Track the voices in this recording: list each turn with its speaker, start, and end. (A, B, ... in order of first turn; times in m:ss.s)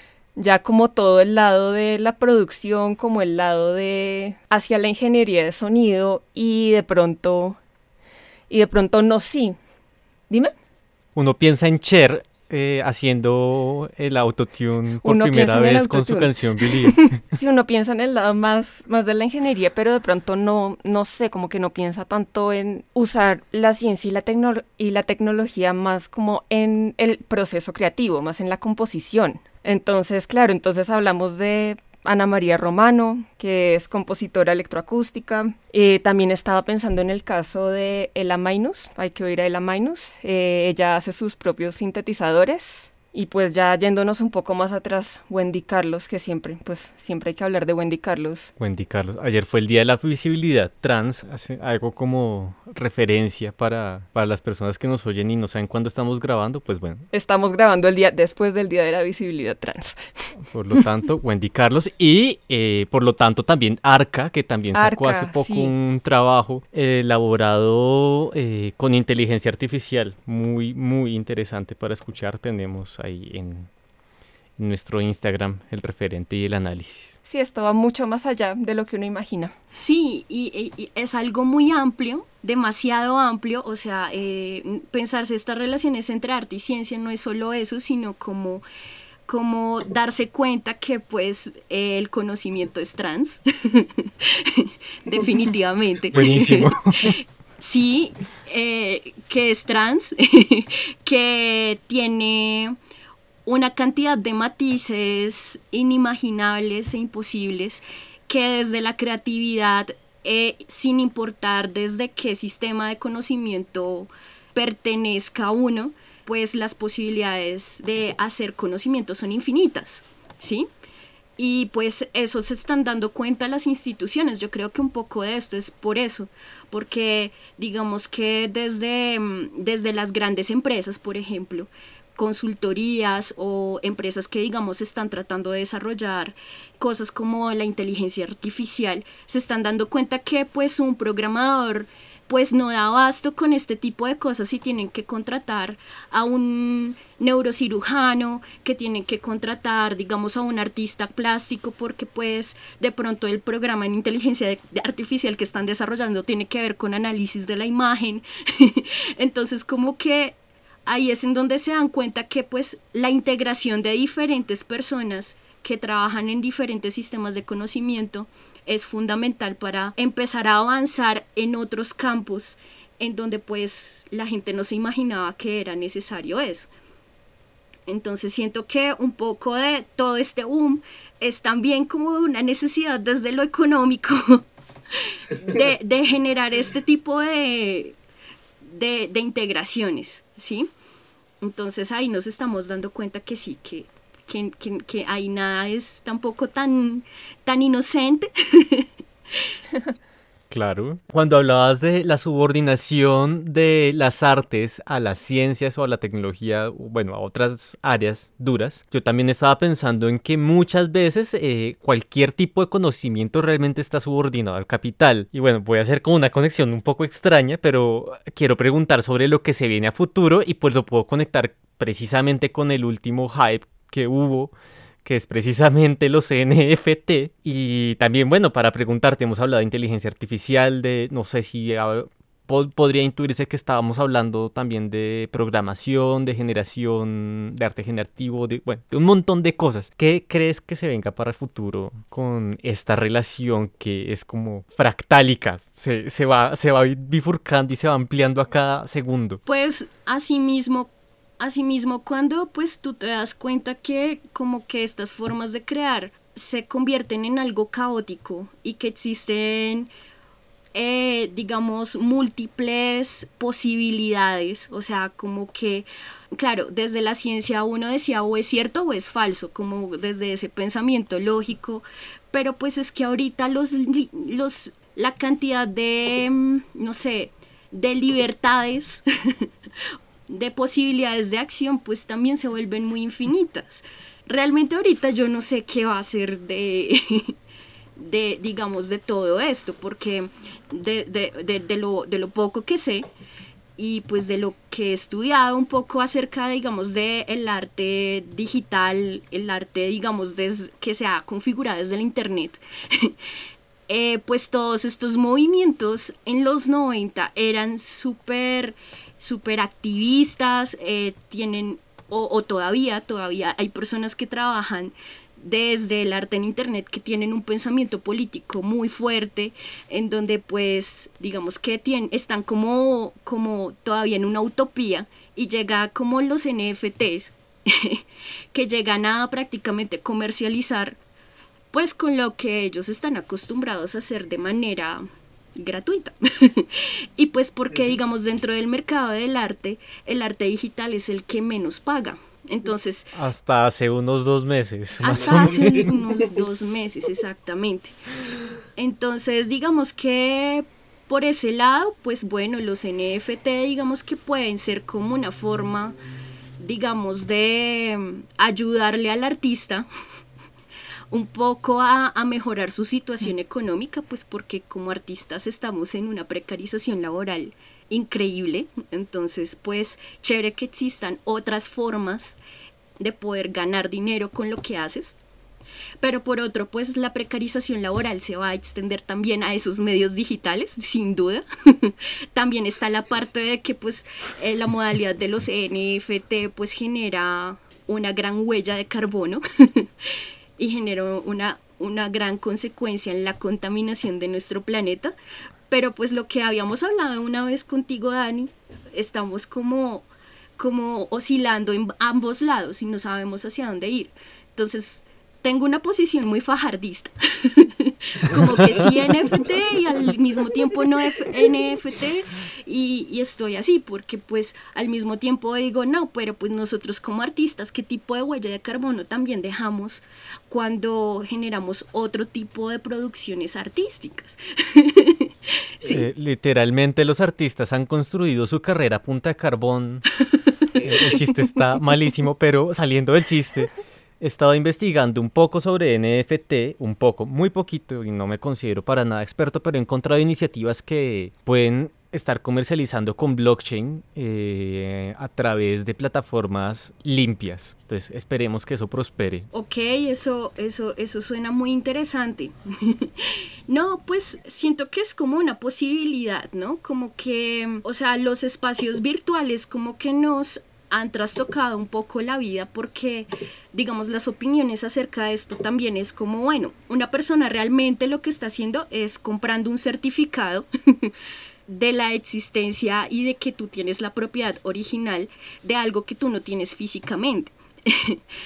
0:00.4-0:07.6 A
0:08.5-0:09.6 A
0:11.2-0:17.2 B
0:15.0-0:48.5 A
0:48.6-0:57.1 B
0:57.1-1:00.0 A
1:00.5-1:13.7 B
1:04.7-1:05.7 A
1:14.6-1:17.2 B
1:17.2-1:19.5 A
1:19.7-1:28.6 C
1:29.2-1:42.8 C
1:36.1-1:37.2 B
1:43.4-2:00.7 C
2:01.4-2:56.7 C
2:57.9-3:04.4 C
3:05.3-3:08.0 C
3:08.6-3:10.7 C
3:11.4-3:18.9 C
3:20.5-3:44.5 B
3:45.0-4:09.4 B
4:09.5-4:19.9 C
4:20.7-4:39.5 C
4:40.3-4:47.3 C
4:48.0-4:53.1 C
4:53.8-5:03.1 C
5:03.9-5:28.0 C
5:28.5-5:31.0 C
5:31.7-5:35.0 C
5:35.5-5:43.1 C
5:43.1-5:45.9 B
5:45.0-5:47.9 C
5:48.8-5:56.0 C
5:56.6-5:59.9 C
6:01.1-6:12.4 C
6:13.0-6:15.2 C
6:16.0-6:35.1 C
6:35.7-7:05.3 C
7:05.8-7:10.0 B
7:10.8-7:29.5 B
7:29.5-7:51.1 C
7:51.7-7:58.2 C